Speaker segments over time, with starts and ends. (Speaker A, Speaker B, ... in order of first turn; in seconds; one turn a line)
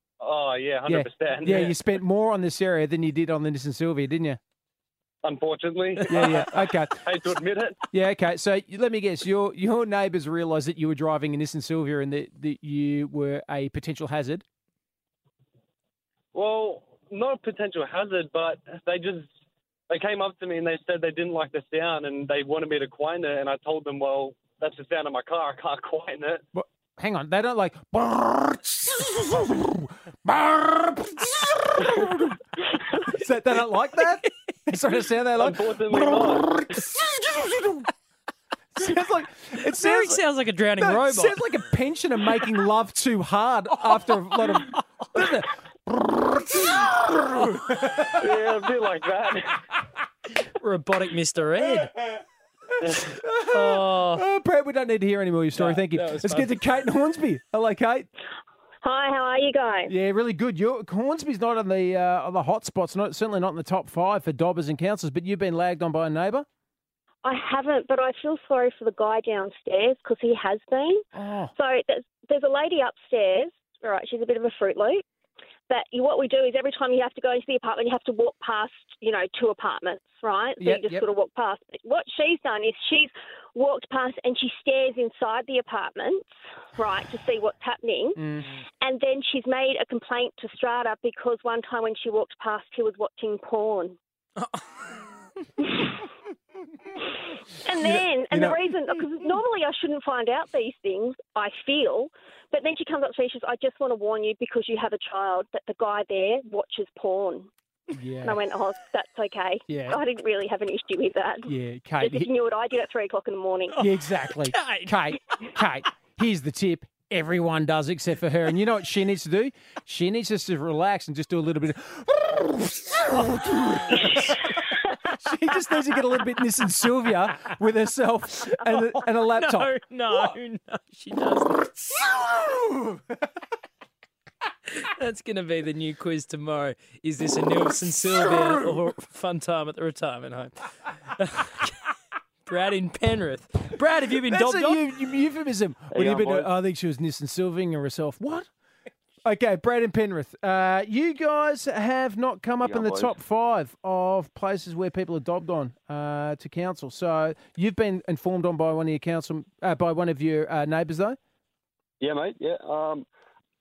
Speaker A: 0.2-1.8
Speaker B: 0.9-4.4
Speaker A: 5.2-7.8
Speaker B: 6.1-7.1
Speaker B: 7.9-14.4
Speaker A: 16.3-19.3
Speaker A: 19.9-26.4
Speaker B: 26.5-37.9
Speaker A: 35.4-36.6
Speaker B: 38.8-40.2
Speaker C: 39.7-41.4
Speaker B: 40.8-48.5
Speaker A: 48.1-49.6
Speaker C: 50.5-51.9
Speaker B: 51.6-51.9
Speaker B: 52.8-58.1
Speaker C: 53.4-54.2
Speaker C: 55.6-56.5
Speaker D: 58.8-59.9
Speaker B: 59.9-66.5
Speaker D: 67.2-71.0
Speaker B: 71.2-71.5
Speaker D: 71.6-75.0
Speaker D: 75.7-88.2
Speaker B: 80.6-81.1
Speaker B: 88.2-88.5
Speaker D: 88.8-94.0
Speaker D: 95.6-96.0
Speaker D: 97.6-107.5
Speaker B: 97.8-98.7
Speaker B: 107.9-108.4
Speaker D: 108.2-113.8
Speaker B: 109.7-110.0
Speaker B: 111.5-112.3
Speaker B: 113.8-130.3
Speaker C: 114.4-115.1
Speaker C: 128.7-132.0
Speaker B: 131.9-133.1
Speaker C: 134.8-141.9
Speaker B: 138.2-138.6
Speaker C: 142.5-144.8
Speaker B: 144.2-148.5
Speaker E: 145.9-146.5
Speaker B: 149.2-161.2
Speaker E: 152.7-153.1
Speaker E: 162.0-163.1